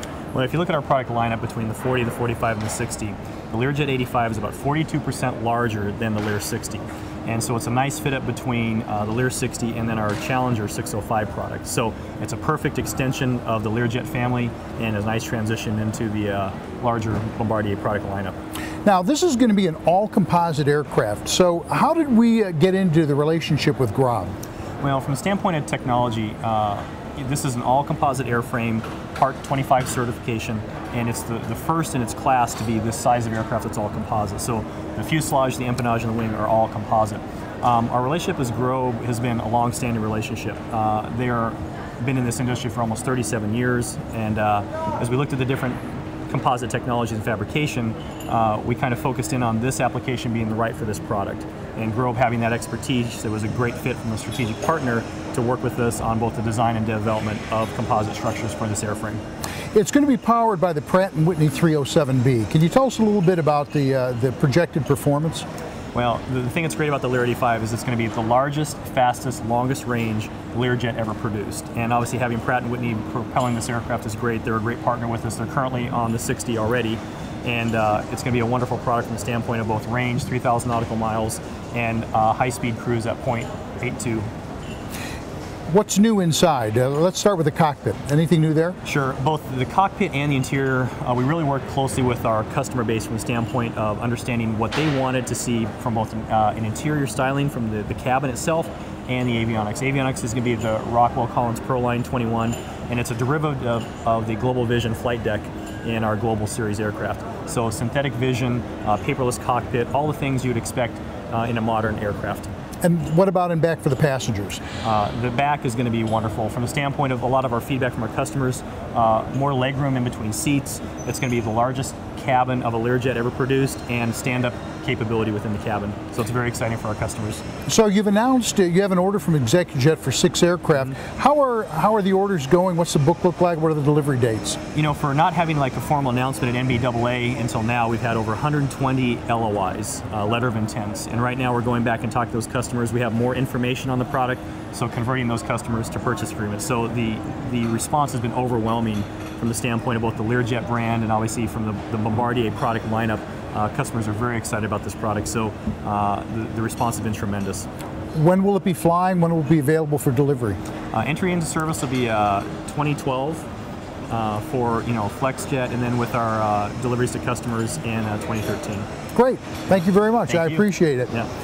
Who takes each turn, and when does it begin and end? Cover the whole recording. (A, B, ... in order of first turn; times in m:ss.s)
0:00.3-0:18.4 A
0:18.8-0:24.3 B
0:24.8-0:59.2 A
0:59.7-1:05.5 B
1:05.9-1:24.3 A
1:25.7-1:28.8 B
1:28.8-1:52.5 A
1:52.8-1:54.6 B
1:54.8-2:07.4 A
2:07.7-2:14.6 B
2:14.8-2:37.7 A
2:38.1-2:40.6 B
2:40.9-2:43.5 A
2:44.1-2:48.9 A
2:49.1-2:51.1 B
2:50.3-2:51.3 A